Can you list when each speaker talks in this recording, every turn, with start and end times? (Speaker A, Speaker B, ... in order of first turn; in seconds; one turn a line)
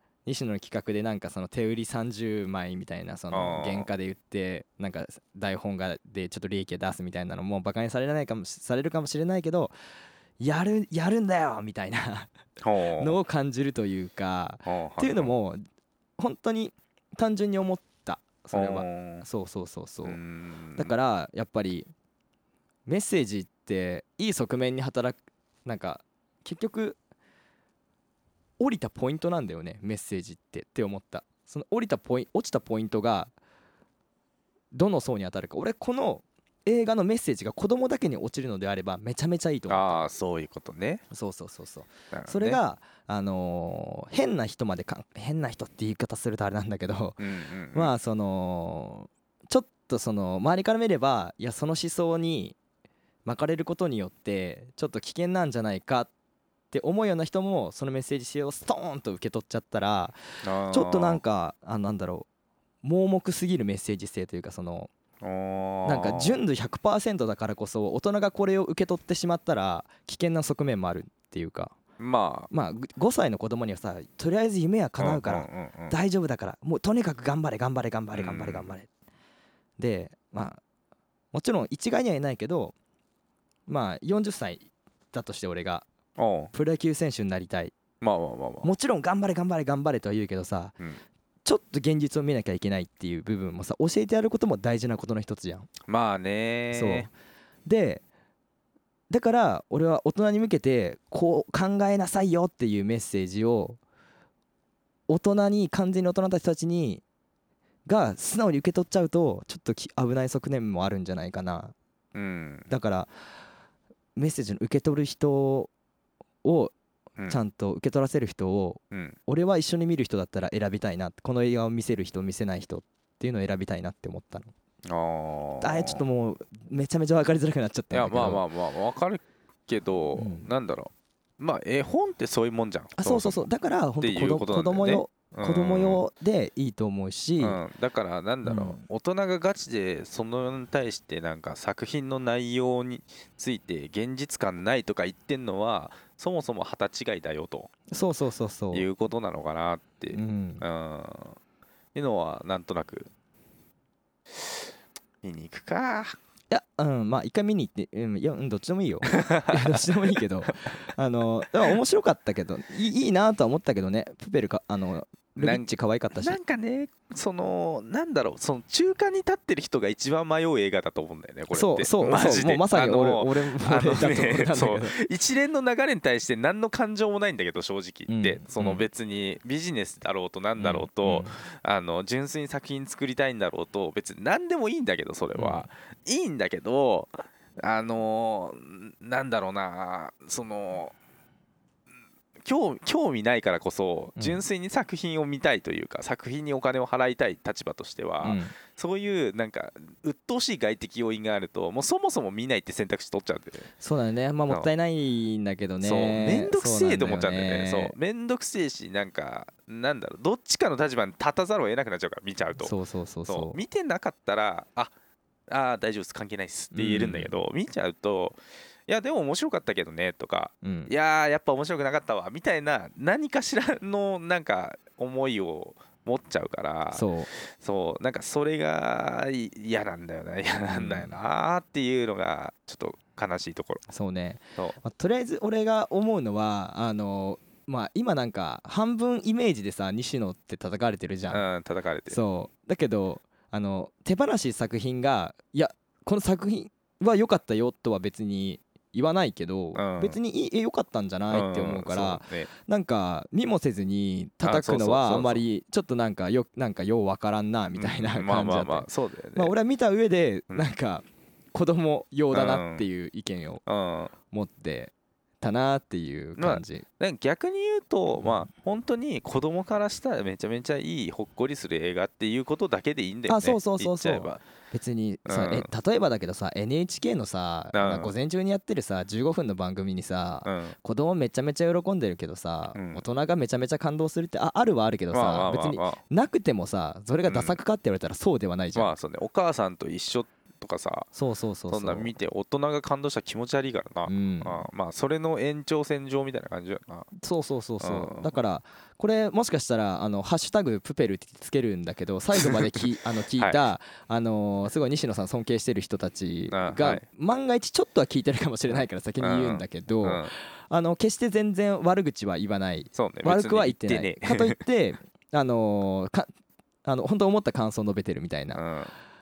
Speaker A: 0.2-9.7
Speaker B: 3.3-3.9
Speaker A: 10.4-12.3
Speaker B: 12.6-13.2
Speaker A: 13.0-15.6
Speaker B: 14.7-15.3
Speaker A: 16.2-20.2
Speaker B: 18.5-19.2
Speaker B: 20.0-20.9
Speaker A: 20.8-21.9
Speaker A: 22.9-27.0
Speaker A: 28.6-33.3
Speaker A: 34.7-40.1
Speaker B: 39.7-41.0
Speaker A: 41.1-52.6
Speaker B: 42.1-42.6
Speaker B: 47.2-47.9
Speaker A: 53.2-56.1
Speaker A: 56.7-62.3
Speaker B: 60.4-61.2
Speaker A: 62.8-64.9
Speaker B: 65.2-66.4
Speaker A: 65.8-71.7
Speaker B: 72.0-72.5
Speaker A: 72.5-78.9
Speaker B: 75.0-75.9
Speaker B: 78.1-78.7
Speaker A: 79.8-80.6
Speaker A: 81.3-82.7
Speaker A: 83.7-85.9
Speaker B: 86.2-86.5
Speaker A: 86.5-87.7
Speaker B: 88.0-88.7
Speaker A: 88.6-90.8
Speaker A: 91.4-95.7
Speaker B: 95.9-97.1
Speaker A: 96.7-97.1
Speaker A: 97.7-98.0
Speaker A: 99.1-103.8
Speaker A: 105.1-107.0
Speaker A: 107.9-111.7
Speaker B: 112.1-112.7
Speaker A: 112.7-113.1
Speaker A: 114.2-115.7
Speaker A: 116.4-116.7
Speaker A: 117.3-124.5
Speaker B: 118.9-119.2
Speaker B: 124.8-126.0
Speaker A: 125.6-128.4
Speaker B: 127.9-133.5
Speaker A: 130.2-130.5
Speaker A: 132.9-137.6
Speaker B: 134.0-136.0
Speaker B: 137.4-147.7
Speaker A: 138.4-138.8
Speaker A: 147.9-148.9
Speaker B: 148.7-151.4
Speaker A: 150.1-150.6
Speaker B: 151.9-153.1
Speaker B: 154.3-154.7
Speaker B: 155.2-156.2
Speaker A: 156.5-166.4
Speaker B: 159.1-159.8
Speaker B: 165.4-190.9
Speaker A: 171.5-175.0
Speaker A: 178.1-178.9
Speaker A: 180.6-181.4
Speaker A: 185.3-185.7
Speaker B: 192.4-203.7
Speaker A: 194.2-194.4
Speaker A: 198.2-198.5
Speaker A: 203.8-207.9
Speaker B: 205.8-212.7
Speaker A: 212.6-213.6
Speaker B: 213.3-214.9
Speaker B: 215.5-233.8
Speaker A: 216.7-217.3
Speaker A: 220.6-220.9
Speaker A: 226.9-227.3
Speaker A: 230.7-231.1
Speaker A: 233.9-241.4
Speaker B: 241.3-242.2
Speaker A: 242.1-263.6
Speaker B: 249.7-250.2
Speaker B: 251.3-252.5
Speaker B: 254.4-255.4
Speaker B: 257.7-259.5
Speaker B: 262.3-262.9
Speaker B: 263.6-264.1
Speaker A: 264.3-266.9
Speaker B: 266.4-274.4
Speaker A: 273.3-288.9
Speaker B: 275.2-275.7
Speaker B: 277.7-278.1
Speaker B: 280.4-280.8
Speaker B: 282.7-283.0
Speaker B: 285.1-286.0
Speaker B: 287.3-287.6
Speaker B: 288.8-291.1
Speaker A: 291.1-292.1
Speaker B: 291.7-297.1
Speaker A: 294.1-294.7
Speaker A: 297.1-316.3
Speaker B: 297.8-298.3
Speaker B: 306.5-307.0
Speaker B: 308.8-310.3
Speaker B: 312.9-314.6
Speaker A: 316.9-318.6
Speaker B: 318.5-318.9